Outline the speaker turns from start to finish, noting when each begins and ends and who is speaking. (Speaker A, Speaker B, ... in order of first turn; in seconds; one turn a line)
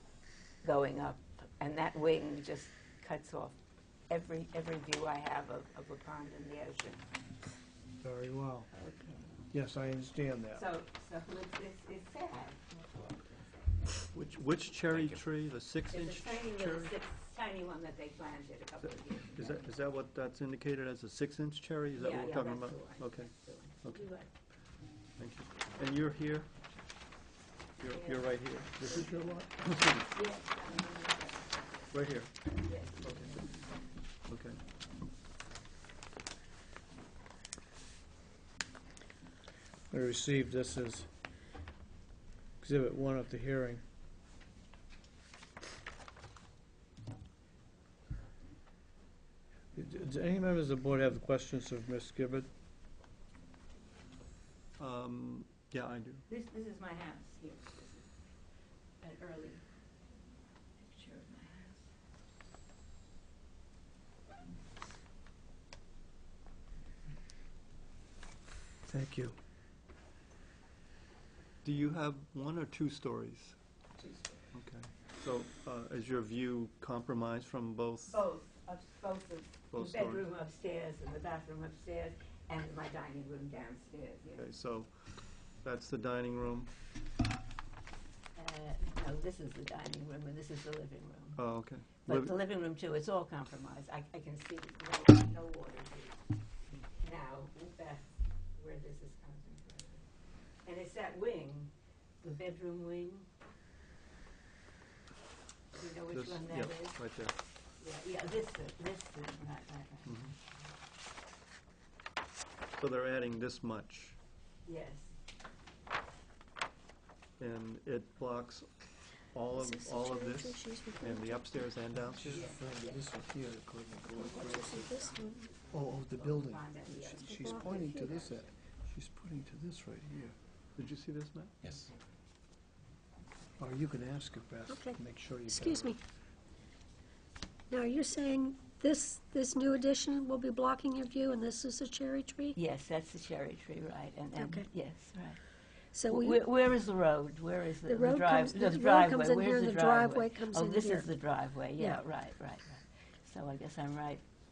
Speaker A: 0.6-3.6
Speaker A: 4.1-7.0
Speaker B: 8.0-8.7
Speaker A: 8.7-9.3
Speaker B: 9.5-10.6
Speaker A: 10.5-14.0
Speaker C: 14.1-16.9
Speaker A: 14.8-15.2
Speaker A: 15.9-19.7
Speaker C: 18.8-24.1
Speaker A: 22.0-24.3
Speaker C: 25.2-26.5
Speaker C: 27.8-30.1
Speaker A: 27.8-29.3
Speaker A: 30.1-32.0
Speaker C: 31.9-33.4
Speaker A: 32.6-33.7
Speaker C: 34.3-34.6
Speaker B: 39.9-41.1
Speaker B: 42.6-43.8
Speaker B: 49.7-52.5
Speaker C: 54.8-56.2
Speaker A: 56.3-58.1
Speaker A: 59.0-59.6
Speaker A: 60.8-61.9
Speaker B: 68.9-69.3
Speaker C: 71.6-73.6
Speaker A: 74.0-74.4
Speaker C: 74.5-78.2
Speaker A: 78.1-84.5
Speaker C: 79.7-80.3
Speaker C: 84.4-86.7
Speaker A: 88.3-91.4
Speaker C: 91.3-92.3
Speaker A: 92.0-96.2
Speaker A: 96.9-100.0
Speaker A: 100.6-101.7
Speaker A: 102.2-103.3
Speaker A: 105.7-107.0
Speaker C: 106.1-107.3
Speaker A: 107.8-110.6
Speaker C: 112.7-114.2
Speaker A: 114.7-115.1
Speaker C: 117.4-118.7
Speaker C: 119.3-122.5
Speaker D: 119.5-121.7
Speaker B: 121.9-124.8
Speaker A: 122.3-123.0
Speaker D: 124.1-125.5
Speaker A: 124.1-128.5
Speaker B: 125.7-130.3
Speaker D: 127.3-128.2
Speaker C: 130.8-131.5
Speaker B: 133.6-135.9
Speaker D: 134.7-136.0
Speaker D: 137.7-142.6
Speaker A: 142.5-145.4
Speaker D: 144.3-144.7
Speaker D: 145.9-146.4
Speaker A: 146.0-154.2
Speaker D: 147.8-151.2
Speaker D: 151.8-152.0